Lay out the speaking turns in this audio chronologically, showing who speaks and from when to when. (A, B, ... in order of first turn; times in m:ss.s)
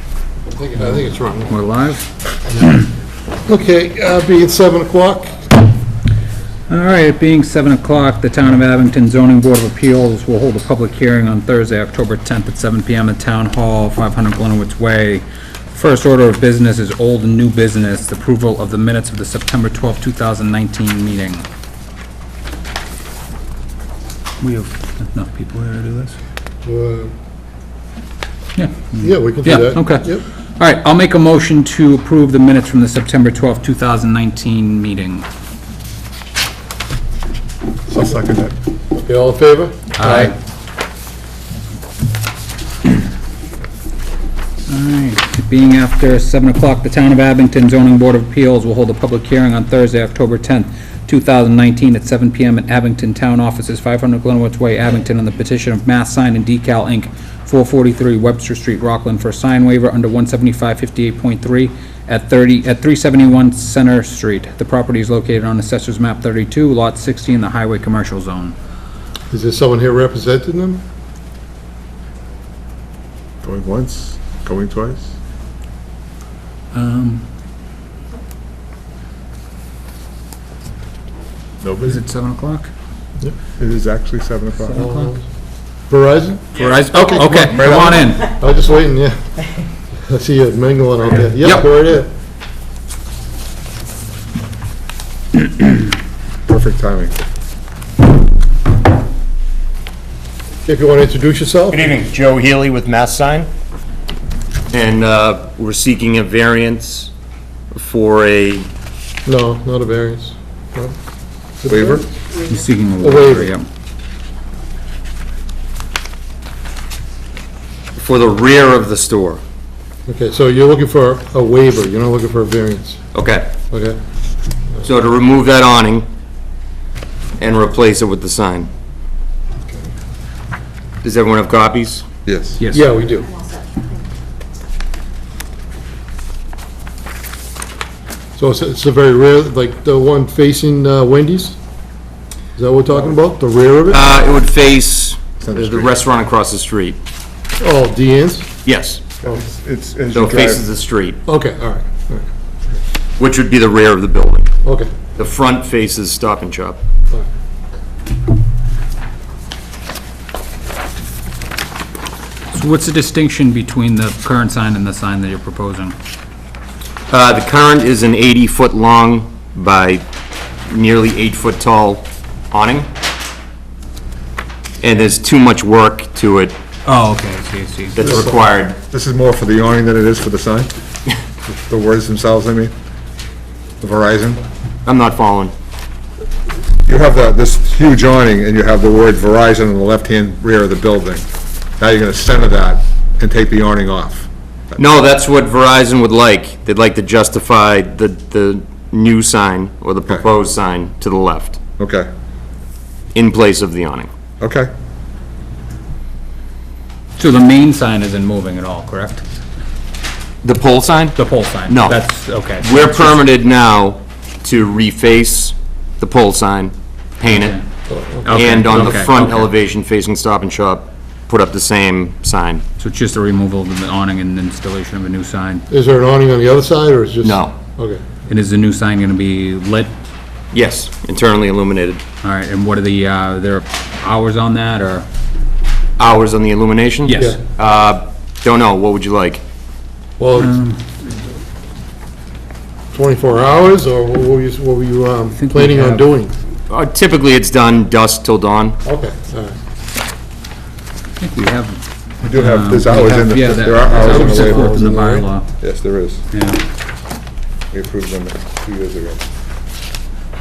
0:00.5-0:01.5 A
0:01.5-0:02.1 B
0:03.5-0:05.4 A
0:06.7-0:21.4 B
0:24.4-0:26.2 B
0:26.6-0:27.1 A
0:28.6-0:35.2 B
0:29.0-0:30.2 A
0:37.9-0:38.5 C
0:38.9-0:40.3 A
0:40.0-0:40.4 B
0:44.7-1:08.5 B
1:09.3-1:10.8 A
1:13.4-1:15.1 C
1:16.7-1:17.2 B
1:21.6-1:22.0 C
1:21.8-1:22.7 B
1:23.6-1:24.8 C
1:24.6-1:25.1 B
1:24.7-1:25.2 A
1:25.9-1:26.5 A
1:26.5-1:28.3 B
1:27.1-1:27.5 A
1:27.4-1:28.0 C
1:28.2-1:29.2 A
1:30.1-1:32.1 A
1:36.4-1:37.1 C
1:40.6-1:41.9 A
1:41.7-1:43.5 D
1:44.7-1:47.1 D
1:47.7-1:48.7 D
1:49.2-1:50.9 A
1:51.6-1:52.1 A
1:51.7-1:52.0 C
1:52.4-1:53.6 B
1:53.0-1:53.5 A
1:58.0-1:59.4 D
2:00.0-2:03.0 A
2:03.1-2:03.5 D
2:03.7-2:04.0 A
2:04.8-2:06.1 D
2:07.4-2:08.7 D
2:11.0-2:12.0 D
2:12.2-2:12.6 C
2:12.6-2:12.9 B
2:12.7-2:13.3 A
2:18.4-2:21.6 A
2:22.6-2:24.0 A
2:23.9-2:27.0 D
2:25.4-2:26.0 C
2:27.6-2:28.5 A
2:28.6-2:29.0 D
2:29.2-2:30.6 C
2:30.1-2:31.2 D
2:31.2-2:32.3 A
2:33.2-2:34.5 D
2:34.6-2:34.9 A
2:35.2-2:36.8 D
2:42.5-2:45.9 B
2:47.1-2:50.0 D
2:50.7-2:52.9 D
2:54.8-2:56.5 D
2:56.8-2:58.0 B
2:57.9-2:58.8 D
2:58.0-3:00.7 C
3:01.5-3:02.7 C
3:03.8-3:04.4 C
3:04.8-3:05.5 D
3:06.8-3:11.2 C
3:11.8-3:14.3 C
3:14.8-3:21.6 D
3:21.8-3:22.1 C
3:23.1-3:24.1 D
3:24.4-3:24.7 C
3:27.2-3:29.2 B
3:30.4-3:32.0 D
3:31.2-3:33.2 B
3:32.6-3:37.6 D
3:37.3-3:37.6 B
3:37.9-3:38.8 A
3:38.2-3:39.5 B
3:38.3-3:42.6 D
3:42.8-3:45.6 B
3:45.7-3:48.0 A
3:47.2-3:47.5 D
3:48.3-3:49.9 B
3:50.5-3:52.0 D
3:52.2-3:55.0 B
3:56.0-3:59.4 D
3:57.0-3:57.4 B
4:00.2-4:00.5 A
4:00.4-4:00.8 B
4:02.9-4:06.3 A
4:05.4-4:06.1 B
4:06.7-4:08.8 D
4:08.8-4:09.6 A
4:11.2-4:15.5 B
4:12.2-4:14.8 C
4:13.8-4:15.3 A
4:15.6-4:16.2 C
4:16.3-4:16.6 B
4:17.7-4:19.2 C